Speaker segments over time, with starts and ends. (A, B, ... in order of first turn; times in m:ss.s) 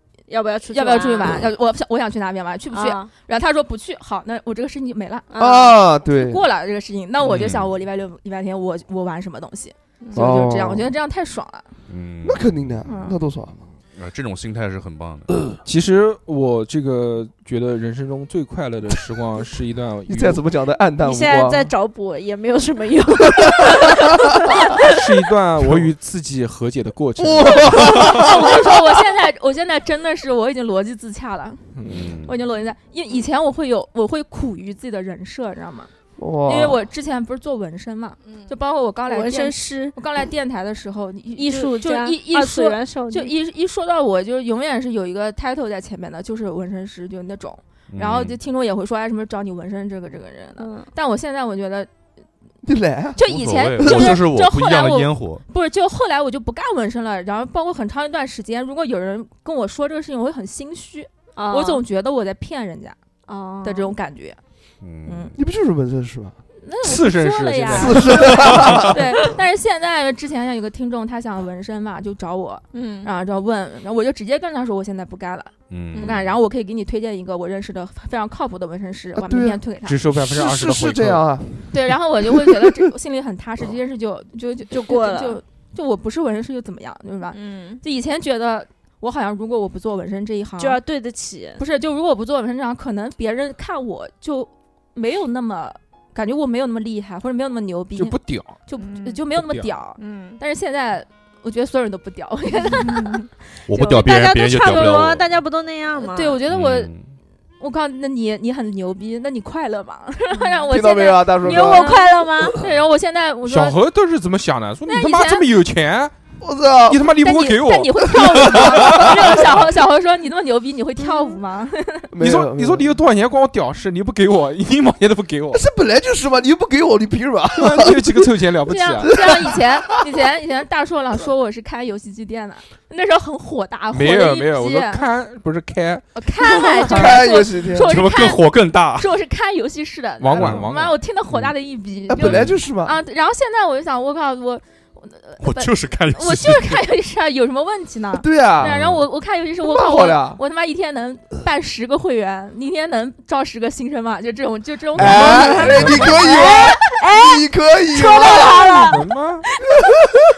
0:00.3-0:01.5 A
0:00.7-0:05.3 B
0:02.7-0:03.1 A
0:05.3-0:05.8 A
0:05.4-0:06.4 C
0:06.0-0:11.7 B
0:07.3-0:07.7 D
0:10.0-0:10.3 A
0:10.1-0:10.9 C
0:11.9-0:12.5 D
0:12.2-0:13.6 C
0:12.8-0:13.2 B
0:13.9-0:15.3 D
0:15.6-0:20.4 E
0:20.1-0:21.7 C
0:21.0-0:24.9 A
0:23.4-0:24.0 C
0:24.8-0:28.2 E
0:27.2-0:28.7 C
0:27.6-0:35.9 B
0:31.7-0:32.2 E
0:31.8-0:32.3 D
0:36.2-0:36.8 C
0:36.4-0:51.9 B
0:38.3-0:38.5 A
0:39.1-0:40.0 A
0:41.4-0:43.3 A
0:47.9-0:48.4 D
0:50.6-0:50.9 A
0:52.6-0:53.2 C
0:53.2-1:03.0 B
0:53.2-0:55.4 D
0:53.8-0:54.2 C
1:01.4-1:01.8 A
1:03.3-1:03.9 A
1:03.6-1:04.4 B
1:04.8-1:05.4 D
1:05.0-1:05.4 B
1:05.4-1:06.4 C
1:06.6-1:20.0 B
1:06.8-1:08.9 E
1:07.7-1:09.0 C
1:07.9-1:08.5 A
1:12.7-1:13.1 A
1:15.7-1:16.3 D
1:15.9-1:16.2 A
1:19.2-1:21.5 C
1:19.8-1:21.3 E
1:21.7-1:30.8 B
1:22.2-1:22.6 C
1:24.7-1:25.4 A
1:27.3-1:27.8 A
1:30.6-1:31.6 A
1:31.6-1:44.0 B
1:38.0-1:38.6 E
1:38.8-1:39.3 A
1:39.4-1:39.7 E
1:40.0-1:40.4 A
1:42.6-1:46.4 A
1:43.6-1:45.3 D
1:46.0-1:46.9 B
1:46.5-1:47.1 D
1:47.6-1:53.8 B
1:50.7-1:52.0 C
1:51.4-1:52.6 A
1:53.4-1:56.1 E
1:54.9-1:55.5 B
1:56.4-1:57.1 C
1:56.9-1:59.6 E
1:57.2-2:02.1 B
2:01.0-2:01.4 A
2:02.1-2:02.9 C
2:02.2-2:05.6 E
2:05.5-2:08.3 C
2:07.5-2:09.2 E
2:08.6-2:15.0 B
2:09.0-2:09.6 C
2:13.9-2:16.2 E
2:16.1-2:37.0 B
2:16.4-2:17.0 A
2:16.9-2:18.0 C
2:17.8-2:19.1 D
2:20.2-2:21.0 E
2:22.1-2:23.0 C
2:22.2-2:22.5 D
2:25.4-2:26.8 D
2:28.1-2:28.8 C
2:28.6-2:29.0 D
2:29.6-2:30.4 C
2:35.0-2:38.9 C
2:35.0-2:36.2 E
2:35.2-2:39.0 A
2:38.0-2:38.9 B
2:38.9-2:39.4 E